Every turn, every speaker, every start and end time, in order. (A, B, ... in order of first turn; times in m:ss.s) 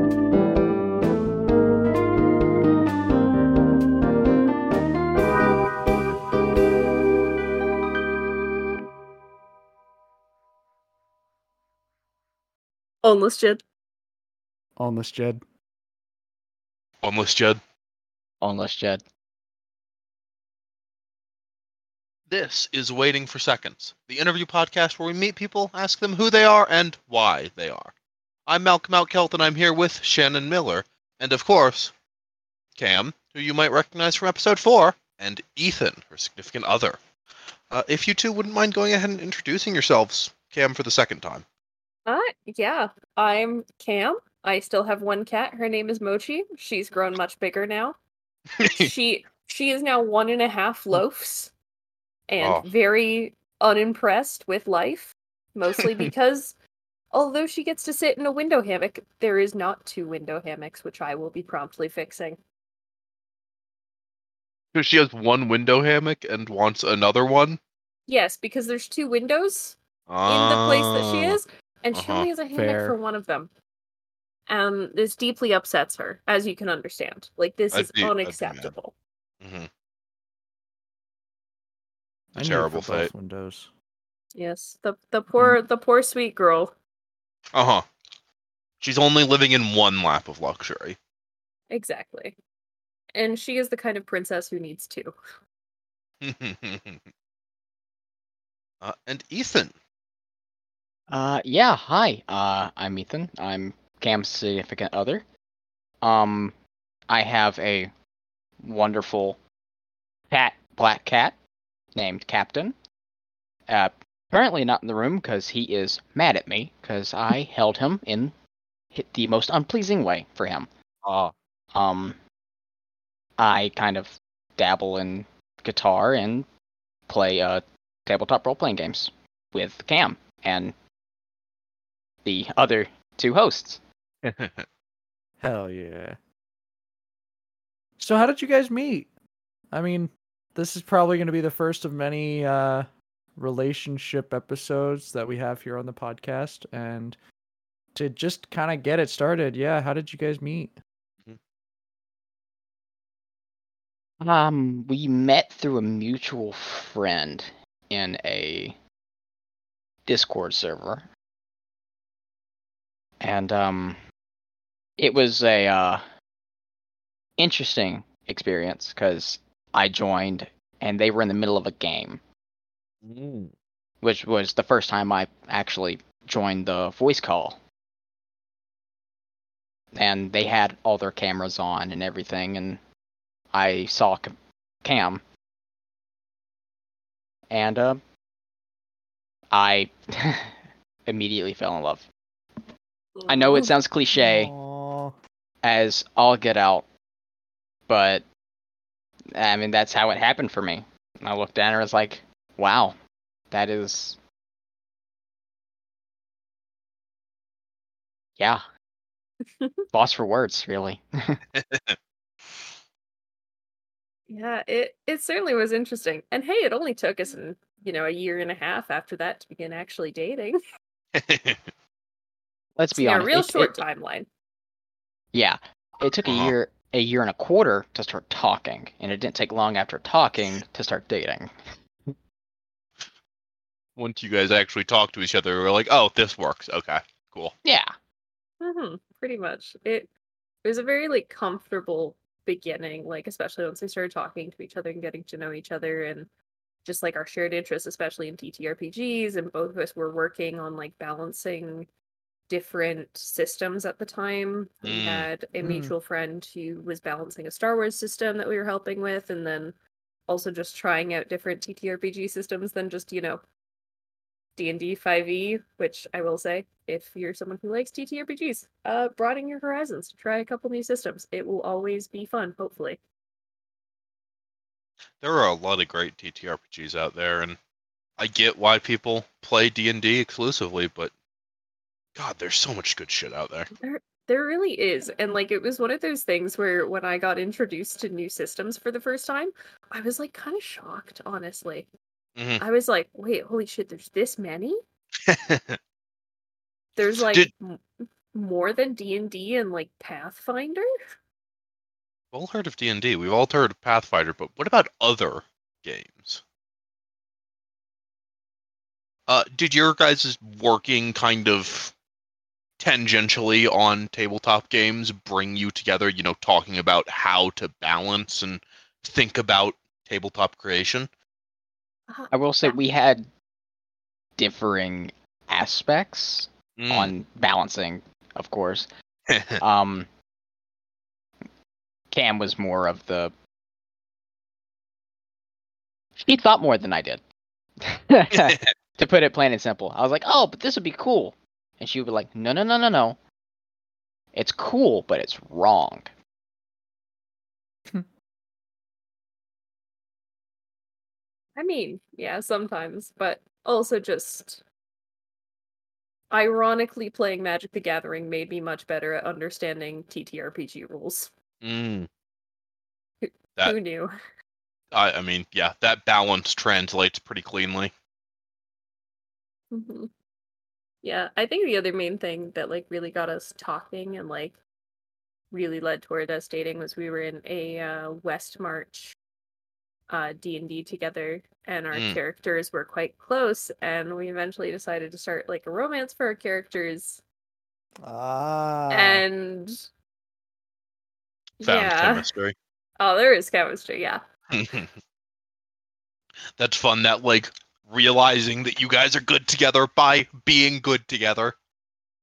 0:13.0-0:13.6 A
0:14.8-0:15.4 B
0:17.0-0:17.6 C
0:18.4-0:19.0 D
0:22.3-0:28.0 C
0:28.5-0:31.9 C
0:32.8-0:37.0 C
0:37.7-0:41.5 C
0:42.1-0:48.0 A
0:48.6-0:48.9 C
0:48.6-0:51.5 A
0:52.3-0:56.6 A
0:52.4-0:52.7 C
0:55.8-0:56.1 C
0:57.1-1:02.4 A
1:04.7-1:07.6 C
1:08.1-1:13.5 A
1:10.1-1:11.4 C
1:11.9-1:12.3 C
1:12.5-1:13.0 B
1:14.5-1:18.9 A
1:17.7-1:18.7 C
1:19.4-1:19.7 C
1:22.3-1:23.7 B
1:22.4-1:23.1 C
1:24.3-1:26.7 A
1:27.5-1:27.8 C
1:28.8-1:31.0 C
1:31.7-1:32.4 A
1:33.2-1:35.1 A
1:36.2-1:37.1 C
1:38.8-1:39.8 C
1:41.1-1:45.2 D
1:46.0-1:46.5 D
1:47.1-1:47.9 D
1:48.6-1:49.4 D
1:50.3-1:51.4 D
1:51.9-1:52.8 D
1:53.7-1:58.3 D
1:58.9-2:00.7 D
2:01.0-2:01.3 C
2:01.7-2:02.2 D
2:03.4-2:06.5 D
2:07.1-2:10.8 D
2:12.2-2:13.8 D
2:14.2-2:14.7 C
2:15.4-2:16.2 B
2:18.0-2:19.1 B
2:19.7-2:27.2 B
2:27.9-2:30.8 B
2:34.2-2:38.8 D
2:40.1-2:41.1 D
2:43.2-2:44.0 D
2:45.0-2:46.0 D
2:47.4-2:52.2 D
2:53.0-2:53.5 C
2:54.0-2:57.6 D
2:59.9-3:02.8 D
3:03.5-3:05.2 D
3:07.5-3:08.0 D
3:09.5-3:12.1 D
3:13.2-3:13.7 A
3:13.3-3:14.5 D
3:14.1-3:15.2 B
3:15.6-3:16.8 D
3:17.9-3:18.2 D
3:19.3-3:23.0 D
3:23.5-3:24.2 D
3:29.9-3:31.4 D
3:31.5-3:32.0 C
3:34.3-3:40.6 A
3:41.1-3:41.7 C
3:42.8-3:43.8 D
3:42.9-3:44.3 A
3:45.3-3:51.5 D
3:46.2-3:46.5 C
3:54.0-3:57.6 C
3:57.6-3:57.9 D
3:58.6-4:00.1 A
4:00.6-4:06.3 A
4:06.8-4:11.9 A
4:12.5-4:19.8 A
4:14.8-4:15.3 C
4:15.6-4:15.9 B
4:20.3-4:23.4 A
4:24.6-4:33.0 A
4:35.2-4:37.6 C
4:38.2-4:41.1 C
4:42.1-4:43.7 C
4:43.8-4:51.9 A
4:52.4-4:52.6 C
4:52.6-4:54.8 A
4:55.3-4:55.8 C
4:57.0-5:00.9 A
5:02.3-5:06.4 C
5:09.3-5:11.9 C
5:12.8-5:21.1 C
5:22.1-5:22.8 A
5:22.3-5:23.3 D
5:24.4-5:28.9 D
5:26.8-5:27.1 C
5:29.3-5:29.6 C
5:29.6-5:30.1 D
5:32.1-5:33.3 D
5:36.2-5:37.2 D
5:37.8-5:43.2 D
5:38.3-5:38.6 C
5:44.3-5:46.1 D
5:51.6-5:54.6 A
5:56.3-6:01.3 A
6:01.6-6:02.1 C
6:03.2-6:04.1 A
6:04.9-6:07.9 C
6:09.7-6:10.1 A
6:11.0-6:14.6 A
6:15.5-6:19.1 A
6:20.1-6:27.2 A
6:21.9-6:22.2 C
6:28.0-6:29.2 B
6:28.9-6:29.8 A
6:31.6-6:32.3 A
6:31.6-6:32.6 C
6:33.0-6:34.2 A
6:34.5-6:34.9 C
6:36.6-6:41.6 C